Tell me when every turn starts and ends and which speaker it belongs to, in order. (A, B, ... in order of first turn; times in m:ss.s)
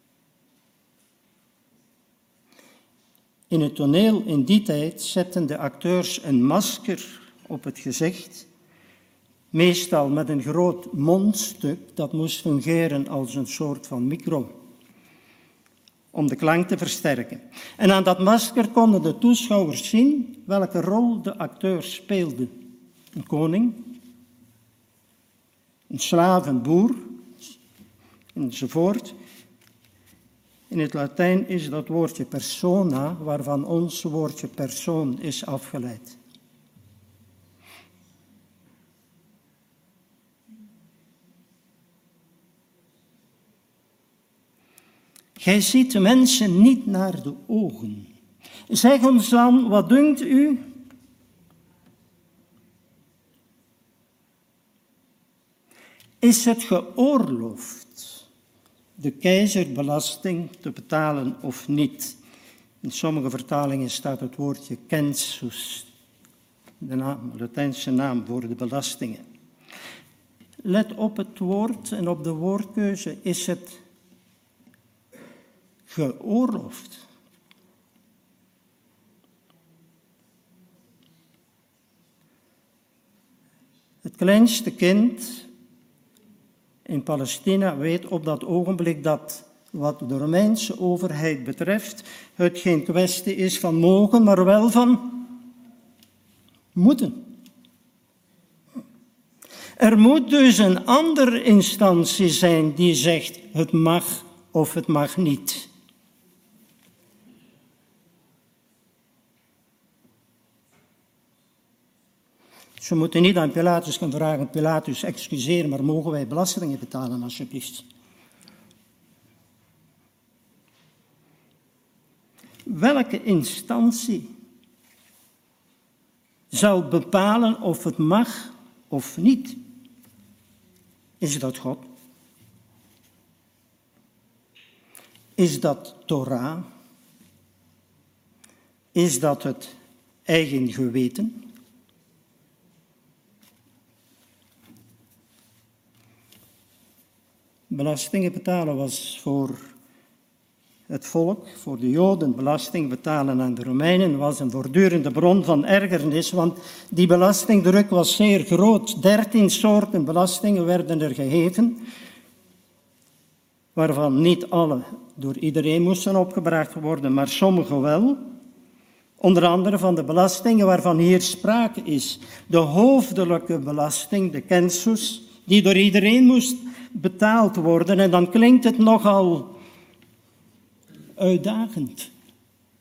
0:03.5-0:08.5 A
0:09.5-0:14.6 A
0:16.1-0:22.5 A
0:23.1-0:24.0 A
0:25.9-0:27.2 A
0:28.3-0:29.2 A
0:30.7-0:36.2 A
0:45.4-0:48.1 A
0:48.7-0:50.6 A
0:56.2-0:58.2 A
0:59.0-1:02.2 A
1:02.8-1:05.9 A
1:06.8-1:09.2 A
1:10.6-1:13.8 A
1:15.9-1:17.0 A
1:24.0-1:25.5 A
1:26.8-1:35.4 A
1:36.7-1:37.3 A
1:39.8-1:45.7 A
1:52.8-1:57.8 A
2:02.7-2:04.3 A
2:06.5-2:09.6 A
2:11.2-2:11.9 A
2:15.4-2:16.6 A
2:18.9-2:19.7 A
2:20.3-2:21.5 A
2:27.7-2:29.6 A
2:30.9-2:41.9 A
2:43.7-2:48.2 A
2:49.2-2:59.6 A
3:01.2-3:02.1 A